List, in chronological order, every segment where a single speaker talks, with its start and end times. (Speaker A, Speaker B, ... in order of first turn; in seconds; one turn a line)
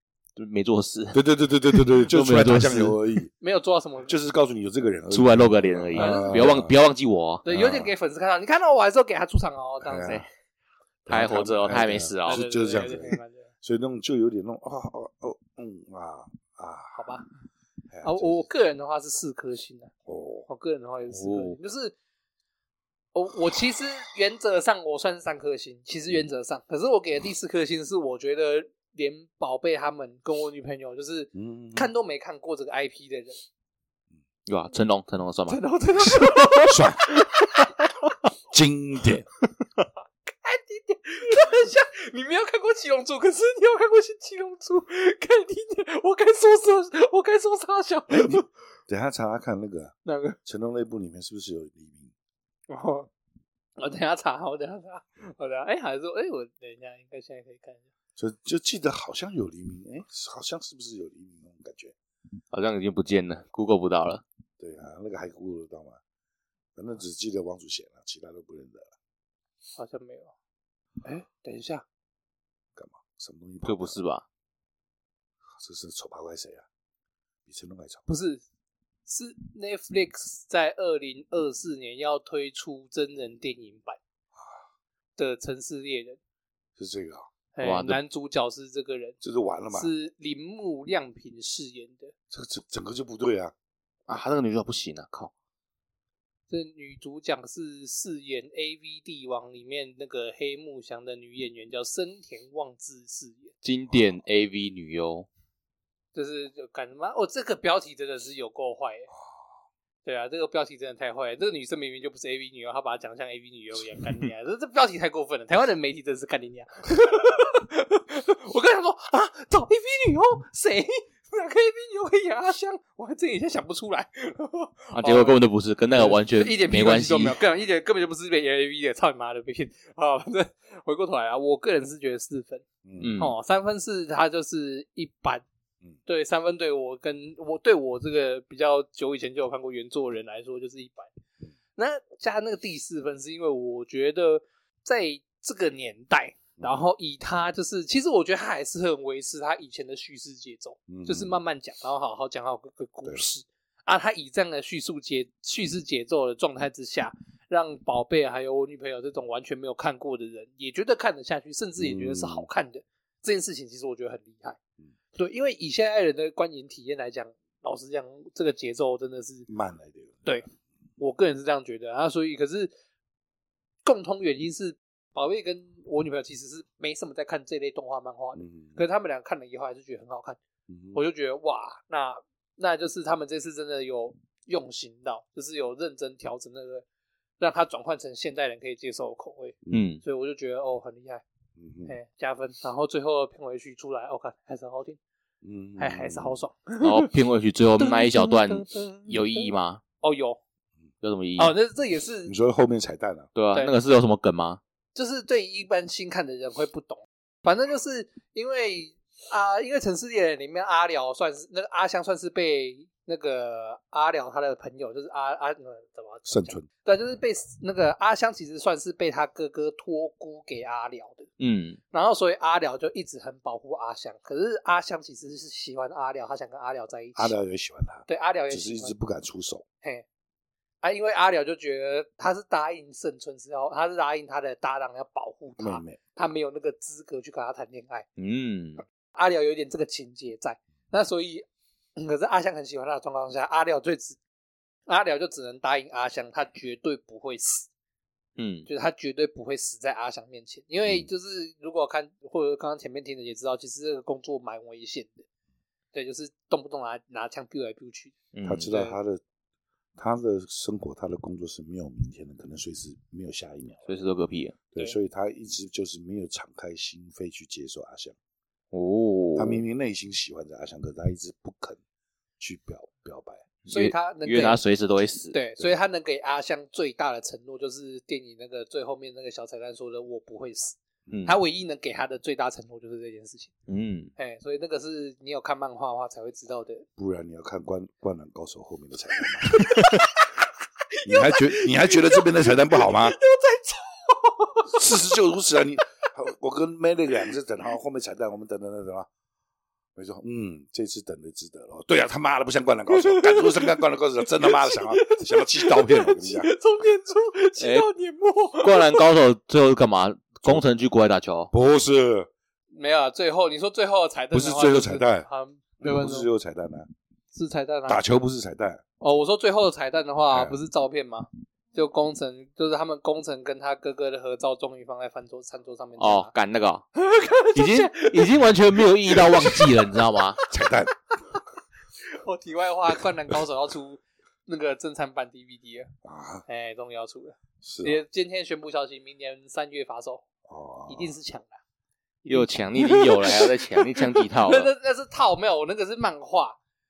Speaker A: 0.3-3.0
Speaker B: 1.1-3.3
Speaker C: 3.4-4.1
Speaker B: 4.1-6.7
Speaker A: 5.1-7.4
Speaker C: 6.0-6.4
Speaker C: 7.4-10.3
Speaker B: 7.5-7.9
Speaker B: 9.8-10.2
Speaker B: 11.1-17.0
Speaker A: 11.1-12.4
Speaker C: 12.2-13.5
Speaker C: 16.9-17.3
Speaker B: 17.9-18.4
Speaker C: 18.0-19.9
Speaker B: 20.1-20.5
Speaker C: 20.5-21.9
Speaker A: 21.1-21.6
Speaker C: 23.1-33.4
Speaker B: 31.3-31.9
Speaker A: 34.5-35.6
Speaker C: 35.5-38.1
Speaker A: 36.2-36.5
Speaker B: 36.7-37.1
Speaker B: 38.5-39.3
Speaker C: 40.2-48.5
Speaker B: 48.1-52.1
Speaker C: 50.0-50.4
Speaker C: 52.7-53.1
Speaker C: 53.8-57.8
Speaker B: 58.2-61.9
Speaker A: 62.5-64.2
Speaker B: 64.6-66.0
Speaker B: 66.8-68.9
Speaker C: 69.8-70.3
Speaker C: 71.0-71.8
Speaker B: 72.8-74.0
Speaker A: 73.6-74.2
Speaker B: 75.5-76.7
Speaker B: 77.5-78.0
Speaker C: 78.1-78.4
Speaker C: 79.0-84.0
Speaker B: 84.3-84.6
Speaker C: 85.2-86.2
Speaker B: 86.8-87.3
Speaker C: 87.5-89.2
Speaker A: 87.6-88.0
Speaker B: 89.2-89.9
Speaker C: 89.7-92.1
Speaker B: 92.3-93.5
Speaker A: 94.1-95.3
Speaker C: 96.5-103.5
Speaker A: 103.6-105.3
Speaker C: 106.1-109.1
Speaker C: 110.0-125.4
Speaker A: 125.0-127.4
Speaker C: 126.0-132.6
Speaker B: 132.8-133.2
Speaker A: 133.0-133.3
Speaker C: 133.2-135.4
Speaker C: 136.1-141.1
Speaker C: 141.7-164.6
Speaker B: 150.9-151.4
Speaker B: 161.8-162.5
Speaker C: 165.1-169.5
Speaker B: 169.5-170.3
Speaker C: 171.0-172.7
Speaker C: 173.8-180.4
Speaker B: 178.3-178.8
Speaker B: 180.7-181.0
Speaker C: 180.9-186.8
Speaker C: 187.4-191.2
Speaker A: 189.7-190.0
Speaker B: 191.6-191.9
Speaker C: 191.8-195.0
Speaker B: 195.4-196.4
Speaker C: 195.8-197.1
Speaker A: 196.8-199.8
Speaker C: 197.8-200.4
Speaker A: 201.0-201.6
Speaker C: 201.4-202.3
Speaker B: 202.2-203.3
Speaker A: 203.3-204.6
Speaker C: 204.9-221.3
Speaker B: 216.2-216.7
Speaker A: 221.4-221.8
Speaker C: 221.9-227.3
Speaker B: 227.2-229.6
Speaker C: 228.1-228.9
Speaker C: 230.8-238.1
Speaker B: 235.6-236.0
Speaker A: 238.2-238.8
Speaker C: 239.1-241.4
Speaker C: 242.0-244.2
Speaker C: 244.9-247.7
Speaker A: 248.4-248.7
Speaker C: 248.7-255.2
Speaker C: 255.9-258.1
Speaker A: 258.3-258.7
Speaker B: 258.4-259.2
Speaker C: 258.7-259.0
Speaker B: 260.0-263.9
Speaker A: 263.9-264.6
Speaker B: 264.7-268.1
Speaker A: 268.7-269.6
Speaker B: 269.4-271.8
Speaker B: 272.4-273.5
Speaker A: 273.6-275.4
Speaker C: 273.7-274.6
Speaker C: 275.3-283.5
Speaker A: 281.1-281.4
Speaker A: 283.7-284.1
Speaker C: 284.2-286.9
Speaker B: 287.0-289.7
Speaker C: 289.4-290.3
Speaker C: 290.9-294.9
Speaker B: 291.0-293.2
Speaker B: 294.7-299.1
Speaker B: 299.9-306.5
Speaker C: 302.9-309.0
Speaker A: 307.6-307.9
Speaker A: 308.6-311.5
Speaker B: 311.5-312.3
Speaker C: 312.7-316.3
Speaker B: 314.3-315.3
Speaker B: 315.8-316.9
Speaker C: 317.3-318.0
Speaker B: 317.9-318.8
Speaker C: 319.0-326.3
Speaker B: 320.3-320.6
Speaker A: 326.0-326.8
Speaker C: 326.9-330.5
Speaker A: 327.5-330.4
Speaker B: 330.5-331.4
Speaker C: 332.0-335.9
Speaker B: 336.0-336.4
Speaker C: 336.5-340.2
Speaker B: 337.6-338.0
Speaker B: 340.5-341.1
Speaker C: 340.9-341.6
Speaker C: 342.2-346.6
Speaker A: 342.3-344.7